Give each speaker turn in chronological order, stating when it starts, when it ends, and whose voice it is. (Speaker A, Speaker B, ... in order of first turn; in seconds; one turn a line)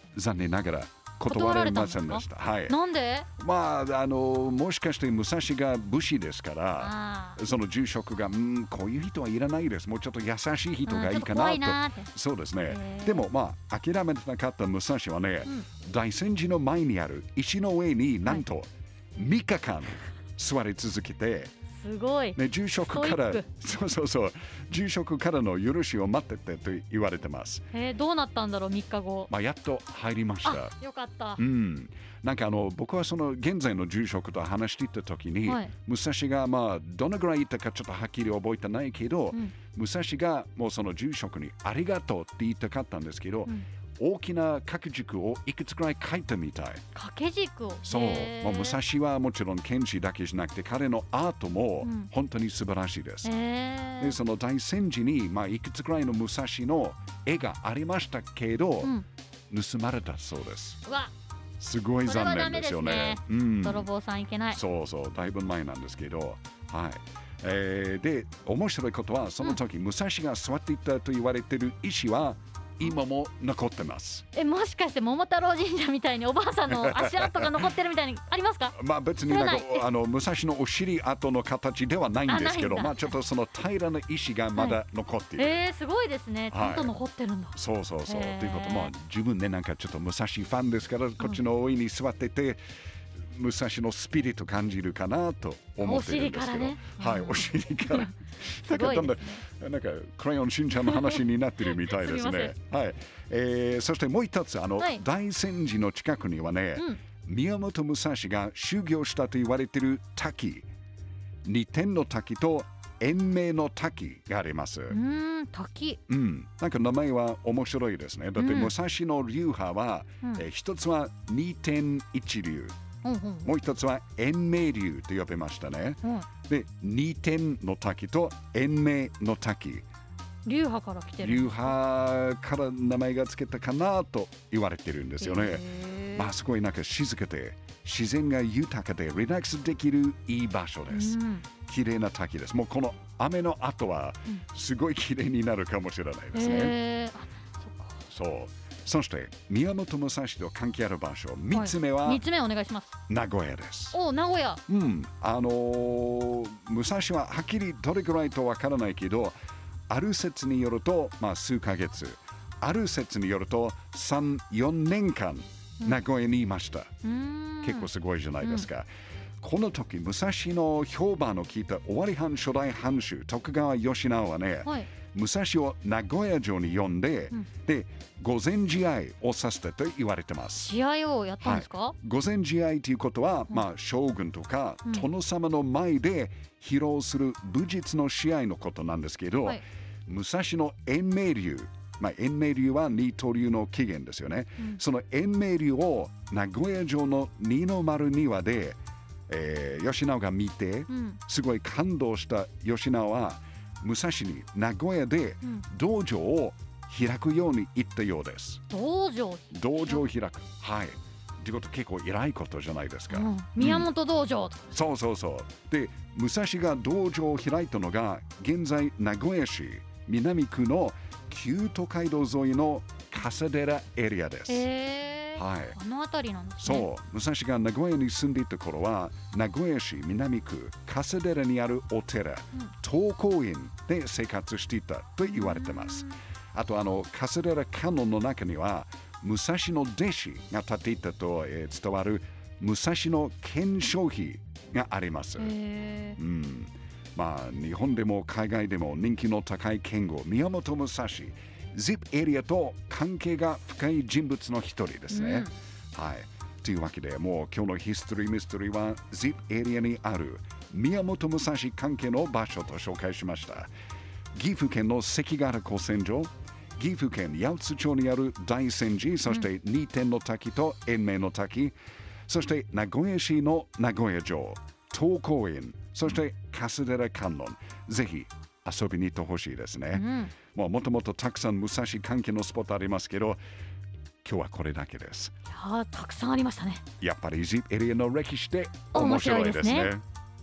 Speaker A: 0.1-2.8
Speaker B: 1.2-3.3
Speaker A: 3.4-21.5
Speaker B: 6.8-7.4
Speaker B: 10.8-12.1
Speaker B: 12.7-13.3
Speaker B: 21.8-23.4
Speaker A: 22.4-27.6
Speaker B: 27.7-29.3
Speaker A: 29.3-30.7
Speaker B: 30.4-31.4
Speaker A: 31.4-46.8
Speaker B: 35.4-35.7
Speaker B: 46.9-48.8
Speaker A: 47.8-53.3
Speaker B: 51.8-52.1
Speaker B: 53.2-54.2
Speaker A: 54.0-58.9
Speaker A: 59.5-60.8
Speaker B: 60.8-61.1
Speaker A: 61.6-63.9
Speaker B: 62.0-64.6
Speaker A: 64.5-74.2
Speaker B: 74.3-79.9
Speaker A: 76.8-77.7
Speaker A: 78.7-85.6
Speaker B: 82.3-83.1
Speaker B: 85.4-88.9
Speaker A: 86.5-86.9
Speaker A: 87.5-92.6
Speaker A: 93.3-110.7
Speaker B: 95.8-98.1
Speaker B: 98.6-99.4
Speaker B: 100.9-101.2
Speaker B: 101.7-102.5
Speaker A: 111.4-115.0
Speaker B: 114.9-116.0
Speaker A: 116.1-122.8
Speaker B: 118.3-118.7
Speaker B: 123.0-123.5
Speaker A: 123.4-129.8
Speaker B: 130.4-131.8
Speaker A: 131.2-146.8
Speaker B: 135.2-136.3
Speaker B: 140.9-141.4
Speaker B: 146.3-148.0
Speaker A: 148.1-152.2
Speaker B: 151.5-152.9
Speaker A: 153.1-154.0
Speaker B: 153.9-154.6
Speaker A: 154.7-159.4
Speaker A: 159.9-166.9
Speaker B: 167.0-167.9
Speaker A: 167.6-168.9
Speaker B: 168.4-168.7
Speaker A: 169.4-180.7
Speaker B: 180.6-181.9
Speaker A: 181.4-198.8
Speaker A: 199.3-208.6
Speaker B: 200.9-201.2
Speaker B: 208.7-210.0
Speaker A: 209.5-213.9
Speaker B: 213.1-214.7
Speaker A: 214.7-224.6
Speaker B: 224.5-226.9
Speaker A: 225.3-225.8
Speaker A: 226.6-245.5
Speaker B: 235.2-236.2
Speaker B: 245.4-246.2
Speaker A: 246.2-263.7
Speaker B: 255.1-255.5
Speaker A: 264.3-271.7
Speaker A: 272.3-283.4
Speaker B: 279.9-280.3
Speaker A: 284.2-285.3
Speaker B: 285.5-286.8
Speaker A: 287.0-290.0
Speaker B: 288.9-289.9